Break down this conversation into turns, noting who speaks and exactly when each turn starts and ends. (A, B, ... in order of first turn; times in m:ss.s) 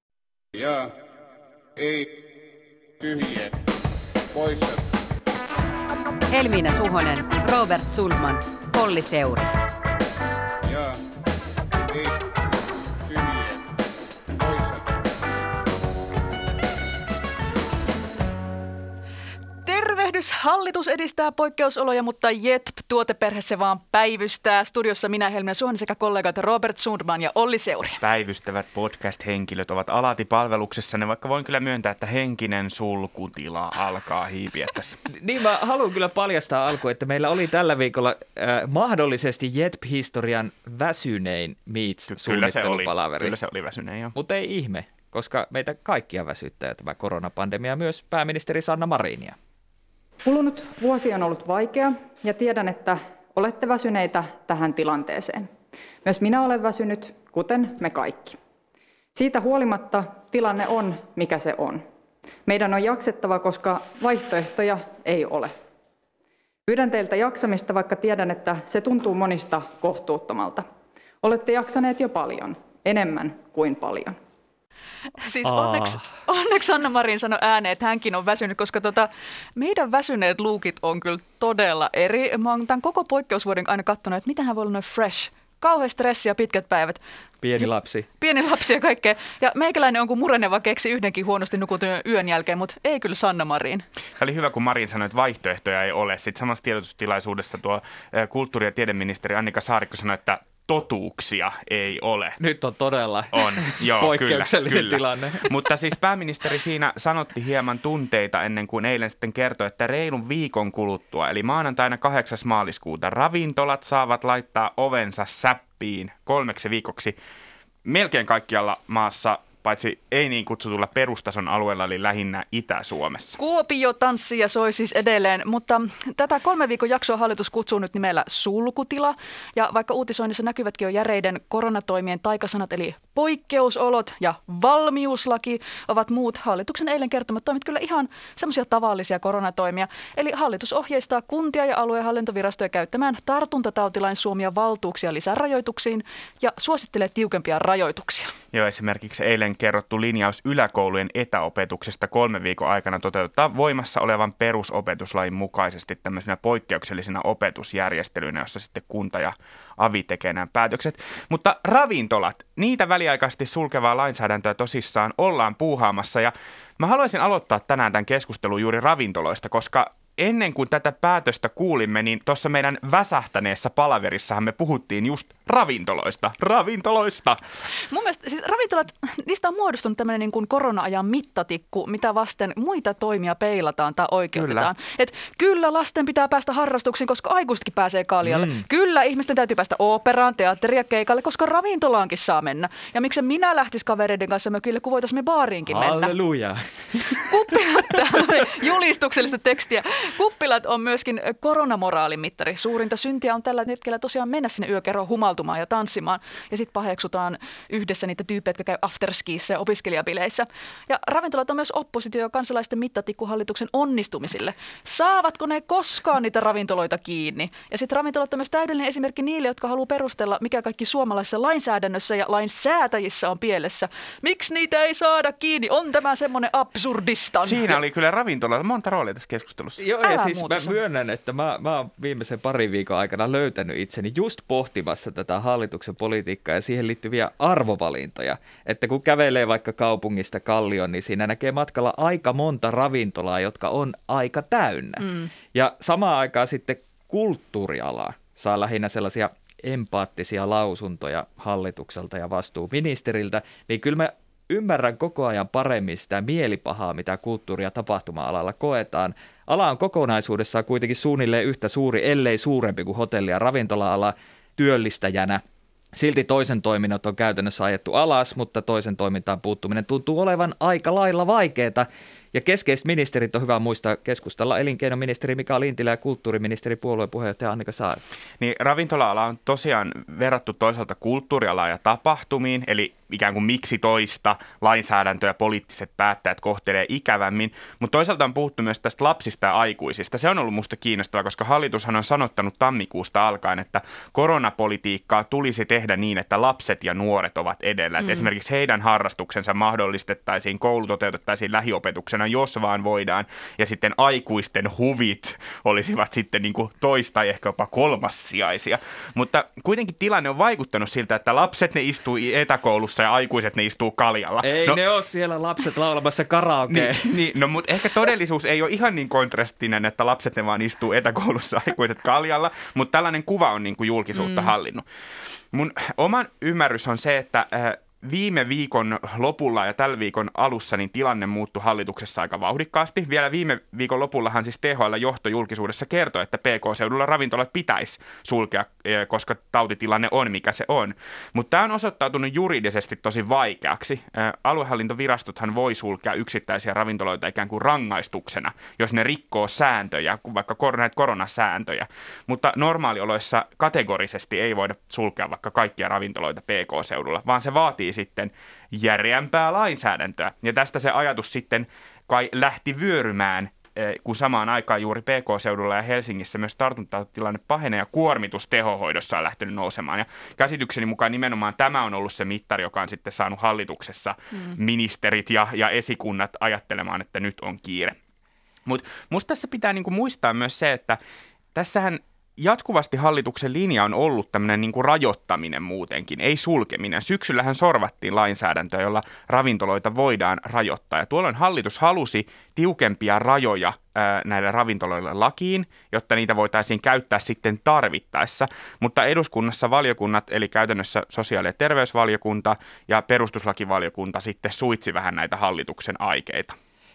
0:00.5-0:00.9 A
0:01.8-0:02.2 A
0:03.0-0:03.6 A
0:04.3-0:04.9 A
0:06.3-0:09.6 B
0:10.6-0:11.0 A
0:11.9-0:12.2 A
0:13.0-0:13.6 A
0:14.3-0:15.0 A
0:19.6-0:28.0 C
0:28.0-0:35.0 D
0:35.1-0:43.4 E
0:42.1-0:44.1 D
0:44.2-0:49.4 E
0:50.2-0:55.5 F
0:56.0-0:58.4 F
0:59.2-1:01.9 F
1:02.5-1:05.6 F
1:06.7-1:10.7 F
1:11.2-1:14.2 F
1:15.2-1:27.0 C
1:15.4-1:16.0 E
1:27.4-1:28.1 E
1:28.2-1:33.8 C
1:34.2-1:42.4 D
1:42.4-1:45.6 E
1:43.3-1:57.2 D
1:57.8-2:03.4 D
2:03.4-2:28.3 C
2:28.5-2:57.4 D
2:57.9-3:16.1 C
3:04.3-3:04.7 D
3:08.2-3:08.6 E
3:15.7-3:17.6 E
3:17.3-3:47.8 C
3:47.4-3:49.8 D
3:49.8-4:25.4 E
3:50.0-3:50.8 C
4:26.0-4:38.0 E
4:38.4-5:14.8 D
5:14.4-5:17.1 E
5:16.7-5:24.8 D
5:25.5-6:18.0 D
6:18.7-6:21.0 D
6:21.5-6:46.6 D